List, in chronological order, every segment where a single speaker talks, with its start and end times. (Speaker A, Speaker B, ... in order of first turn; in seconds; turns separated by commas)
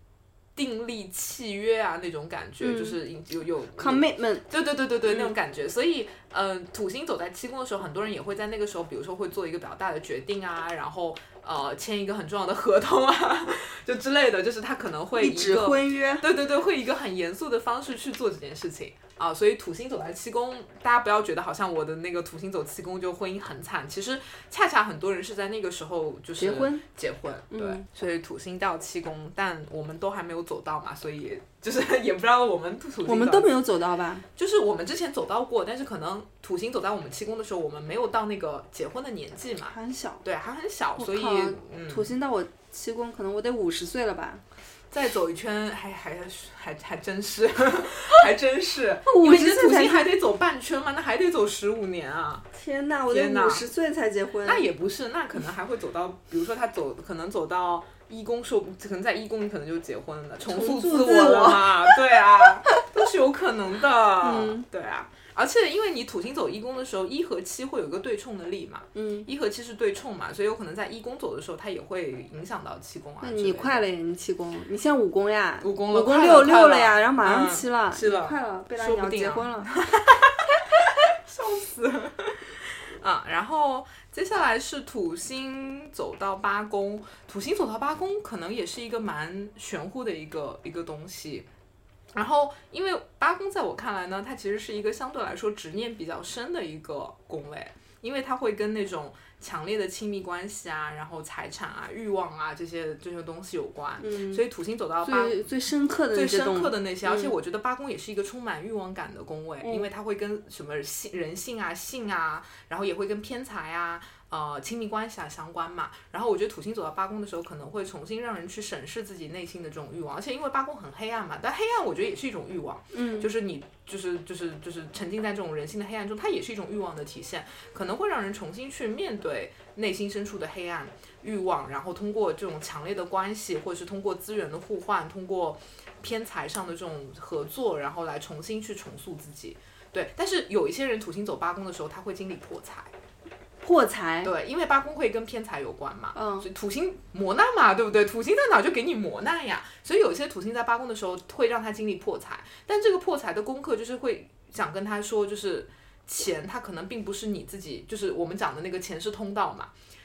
Speaker A: 0.6-33.5, Speaker B: 2.6-3.0, Speaker B: 3.8-4.5, Speaker B: 5.0-5.3, Speaker B: 15.2-16.2, Speaker B: 26.4-26.9, Speaker B: 27.5-27.8, Speaker B: 33.0-34.2, Speaker A: 34.4-42.1, Speaker B: 39.6-40.2, Speaker B: 41.0-44.4, Speaker A: 44.9-52.4, Speaker B: 49.0-50.1, Speaker B: 52.5-54.6, Speaker A: 53.1-53.7, Speaker A: 54.4-73.8, Speaker B: 60.5-62.0, Speaker B: 64.2-64.7, Speaker B: 68.9-69.3, Speaker B: 73.2-79.7, Speaker A: 75.6-91.5, Speaker A: 92.1-105.4, Speaker B: 104.0-104.4, Speaker B: 105.0-107.3, Speaker A: 106.1-142.9, Speaker B: 109.6-109.9, Speaker B: 122.9-123.3, Speaker B: 143.6-144.3, Speaker A: 144.2-159.7, Speaker B: 146.1-146.5